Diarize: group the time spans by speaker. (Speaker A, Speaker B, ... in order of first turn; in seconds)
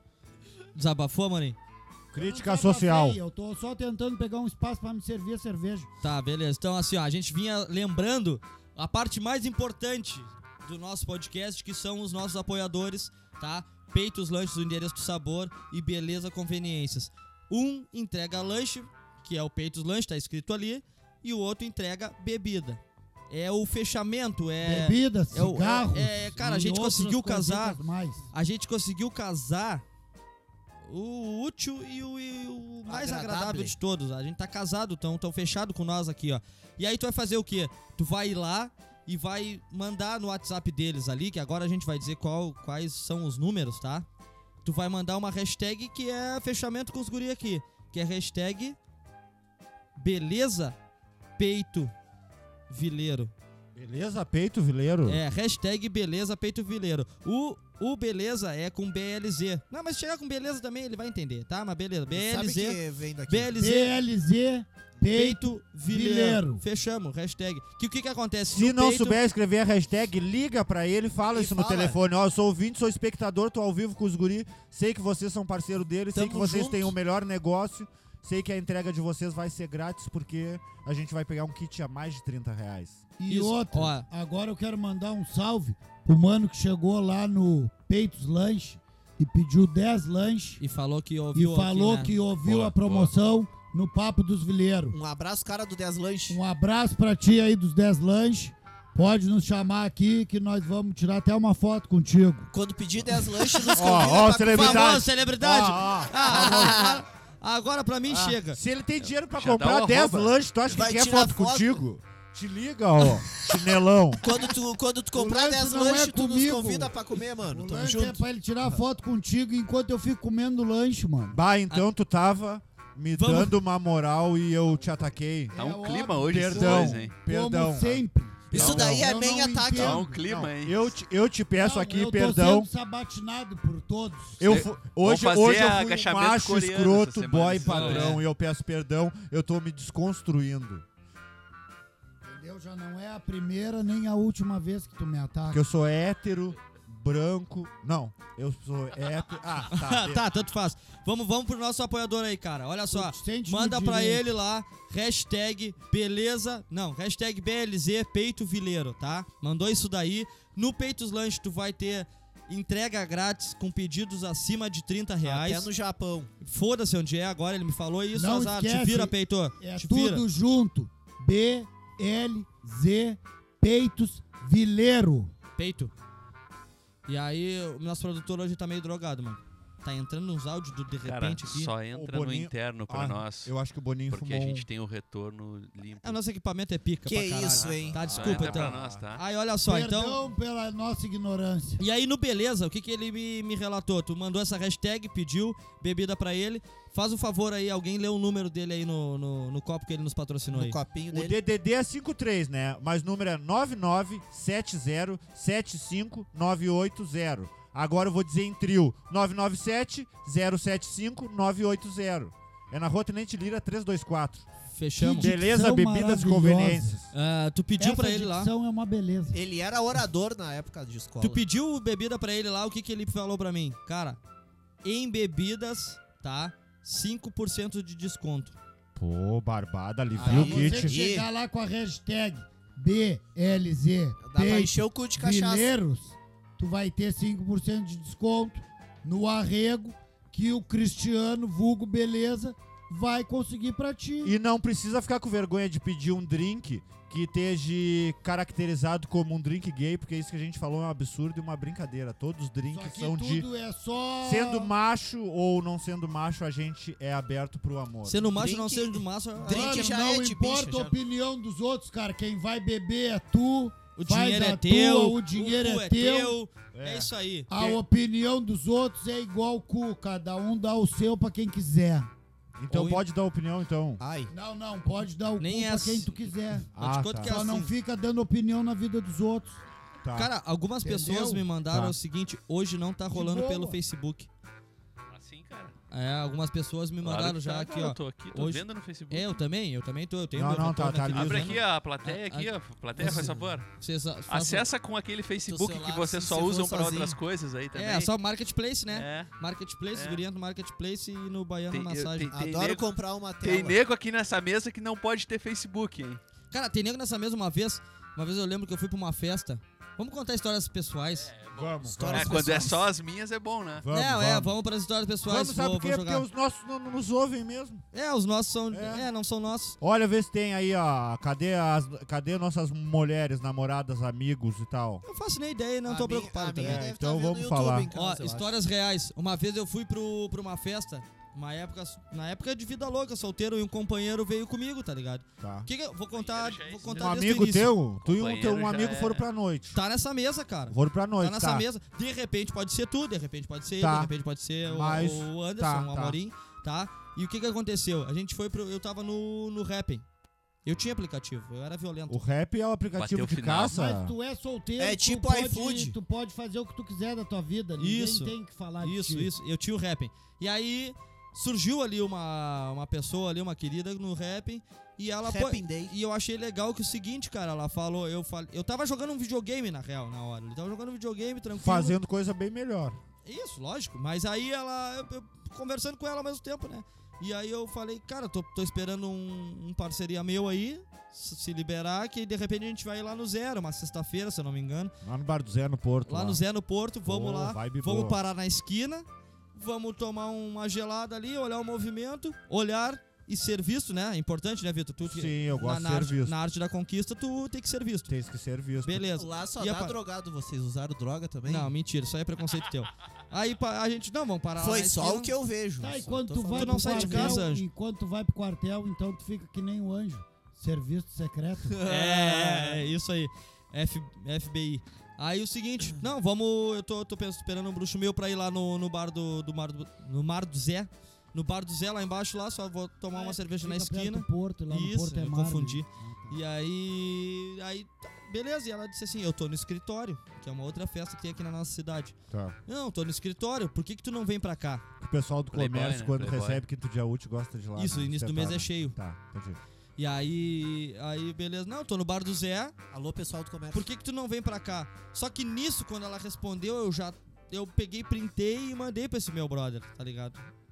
Speaker A: 0.7-1.6, 6.0-27.8, 28.3-29.8, 30.9-44.1, 44.6-48.8, 50.0-50.8, 51.4-51.9, 52.7-53.3, 55.0-63.9, 65.0-69.2, 83.3-84.1, 90.6-92.2, 104.4-108.6, 123.1-123.6, 137.6-138.2, 149.7-165.7, 166.4-170.2, 175.6-175.9, 177.1-181.7, 186.0-190.2, 191.8-200.8, 214.7-215.3, 217.1-218.5, 221.2-224.2, 224.8-228.6, 258.1-259.9, 264.0-267.8, 272.7-273.0, 275.4-277.7, 280.1-284.3, 285.9-294.7, 297.7-302.3, 306.5-311.3, 313.9-316.2, 317.9-319.8, 325.0-326.9, 327.9-337.7, 339.7-350.0, 350.6-352.2, 357.8-372.0, 373.2-384.9, 386.1-398.1, 398.8-400.0, 401.4-405.3, 406.5-407.6, 411.8-432.1, 432.7-434.8, 437.8-438.9, 440.0-442.7, 443.7-450.4
Speaker B: 2.1-3.2, 53.7-55.2, 68.5-83.0, 103.7-106.7, 108.1-114.2, 121.3-125.6, 126.2-129.0, 130.0-132.7, 134.4-140.8, 145.5-150.2, 181.9-184.7, 187.9-189.0, 201.1-214.5, 215.2-217.1, 228.9-231.0, 244.2-253.4, 254.2-258.3, 266.7-267.1, 272.6-274.0, 276.7-277.4, 280.0-280.3, 281.7-281.9, 290.3-291.6, 311.5-312.4, 313.8-314.6, 315.2-317.8, 318.7-319.1, 319.8-325.0, 326.6-327.9, 335.4-335.7, 336.9-339.8, 340.7-341.7, 343.8-344.1, 344.6-346.2, 352.1-354.1, 371.6-373.0, 385.0-386.4, 387.0-388.2, 395.0-396.4, 398.1-399.0, 432.3-432.6, 435.0-439.6
Speaker C: 2.1-5.9, 24.6-28.2, 63.5-66.6, 83.2-90.6, 91.3-95.0, 96.3-102.5, 115.1-117.0, 117.5-121.4, 125.5-130.2, 131.6-134.5, 142.2-145.6, 152.9-154.3, 168.1-175.3, 189.7-191.8, 215.0-216.9, 217.8-219.4, 230.2-244.4, 252.7-254.7, 259.4-266.4, 267.5-272.1, 274.3-276.7, 277.2-279.6, 280.8-281.5, 283.1-283.8, 353.7-359.3, 405.8-411.8, 423.1-426.4
Speaker D: 32.9-33.7, 62.1-63.5, 71.3-72.0, 76.1-76.9, 94.9-96.4, 102.5-105.0, 106.2-107.0, 110.7-111.8, 114.2-118.2, 128.5-130.0, 165.2-166.3, 187.1-188.1, 200.5-201.4, 219.3-221.4, 230.2-231.3, 234.2-235.7, 258.3-260.9, 274.0-274.3, 293.0-293.4, 295.4-297.2, 302.3-303.8, 311.9-312.9, 325.9-328.6, 354.8-355.9, 365.2-365.9, 399.1-401.7, 404.6-407.4, 411.7-412.8, 442.9-443.9
Speaker E: 92.4-93.1, 109.0-110.8, 125.5-127.1, 128.5-129.0, 129.7-130.9, 134.4-138.2, 181.0-183.5, 184.1-186.2, 187.4-189.2, 285.1-285.7, 287.0-289.4, 291.1-293.6, 294.3-298.1, 298.9-299.3, 299.9-300.2, 301.7-306.2, 311.1-313.9, 336.1-337.3, 338.0-339.2, 352.9-353.7, 435.5-436.6